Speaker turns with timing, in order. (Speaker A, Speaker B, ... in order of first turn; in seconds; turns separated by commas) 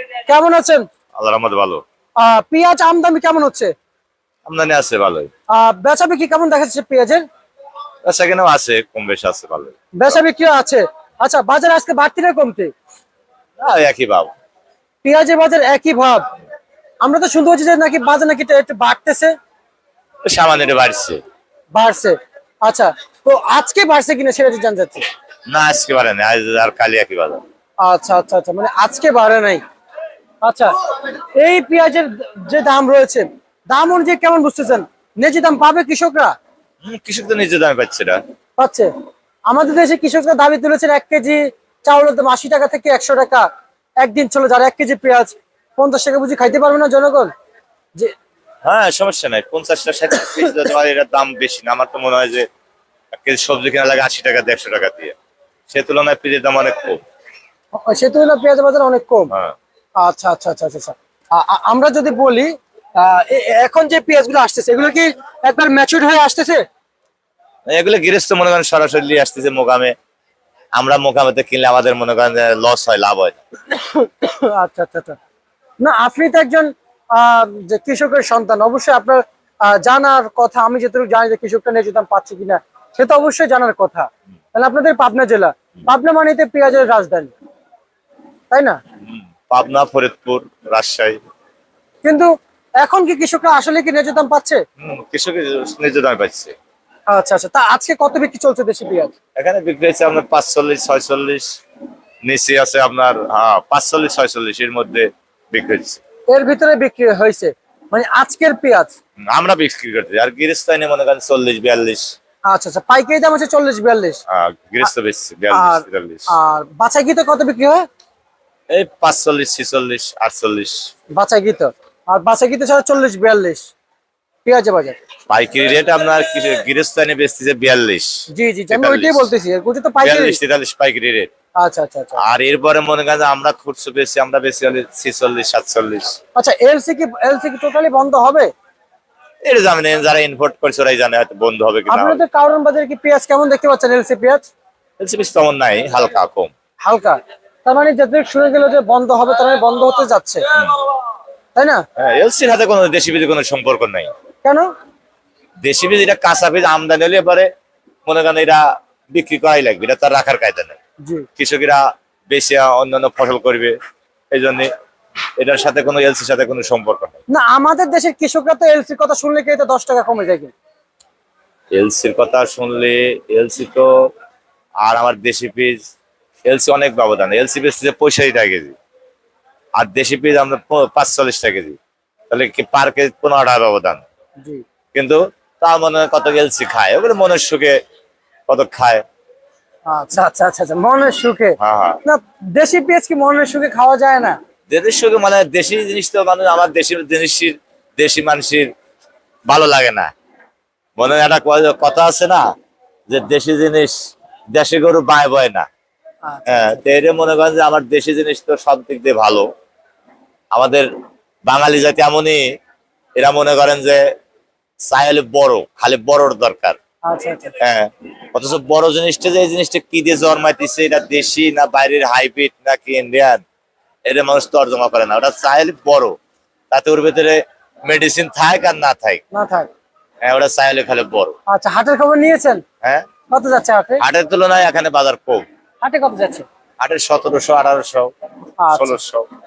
Speaker A: 0.3-0.9, Speaker B: 1.2-1.8, Speaker A: 2.2-3.7, Speaker B: 4.5-5.3, Speaker A: 5.5-7.2, Speaker B: 8.1-10.2, Speaker A: 10.0-12.7, Speaker B: 13.6-14.3, Speaker A: 15.0-16.3, Speaker A: 17.0-19.3, Speaker B: 20.3-21.2, Speaker A: 21.7-25.1, Speaker B: 25.5-27.4, Speaker A: 27.8-29.6, Speaker A: 30.4-30.7, Speaker A: 31.4-36.3, Speaker B: 36.8-38.2, Speaker A: 38.6-38.9, Speaker A: 39.5-43.5, Speaker A: 44.0-47.3, Speaker B: 48.6-52.5, Speaker B: 53.2-55.1, Speaker B: 55.7-57.0, Speaker A: 57.7-59.3, Speaker A: 60.0-66.6, Speaker B: 67.7-69.9, Speaker B: 70.8-73.4, Speaker A: 73.7-75.2, Speaker A: 75.8-87.3, Speaker A: 88.5-88.8, Speaker B: 89.0-91.2, Speaker A: 92.0-94.6, Speaker B: 94.8-96.5, Speaker A: 97.1-99.1, Speaker B: 99.4-101.5, Speaker B: 102.2-106.0, Speaker A: 106.3-108.9, Speaker B: 109.2-112.0, Speaker A: 112.5-114.2, Speaker B: 114.3-116.3, Speaker A: 115.5-117.9, Speaker B: 118.7-120.8, Speaker A: 121.2-123.7, Speaker A: 124.5-125.0, Speaker B: 125.3-128.1, Speaker A: 128.3-130.4, Speaker B: 128.7-129.3, Speaker B: 130.0-131.3, Speaker A: 131.6-132.2, Speaker B: 132.2-136.2, Speaker A: 136.4-138.5, Speaker B: 139.4-142.2, Speaker A: 141.9-144.5, Speaker B: 145.0-146.5, Speaker A: 146.8-150.5, Speaker A: 151.6-151.8, Speaker B: 152.0-154.1, Speaker B: 155.6-157.5, Speaker B: 158.1-160.8, Speaker B: 161.4-163.8, Speaker B: 164.3-164.7, Speaker B: 165.4-167.2, Speaker A: 167.3-170.5, Speaker B: 171.7-173.9, Speaker B: 174.8-175.8, Speaker B: 176.5-178.8, Speaker B: 179.8-181.8, Speaker B: 182.3-184.0, Speaker B: 184.9-187.8, Speaker B: 188.5-189.0, Speaker A: 189.9-194.4, Speaker B: 191.6-192.0, Speaker B: 194.7-198.7, Speaker B: 199.5-200.1, Speaker B: 201.0-202.4, Speaker B: 203.1-203.9, Speaker B: 204.5-205.7, Speaker A: 206.2-206.7, Speaker B: 206.5-209.5, Speaker B: 210.5-210.9, Speaker B: 211.5-212.4, Speaker B: 213.2-214.0, Speaker B: 214.9-216.8, Speaker A: 217.1-217.5, Speaker B: 217.6-223.4, Speaker B: 224.1-226.2, Speaker B: 226.7-229.2, Speaker A: 229.3-229.7, Speaker B: 230.2-231.3, Speaker A: 231.5-232.6, Speaker A: 233.3-234.0, Speaker B: 234.0-235.4, Speaker A: 235.8-236.5, Speaker B: 236.8-238.1, Speaker A: 238.6-239.0, Speaker B: 238.7-239.3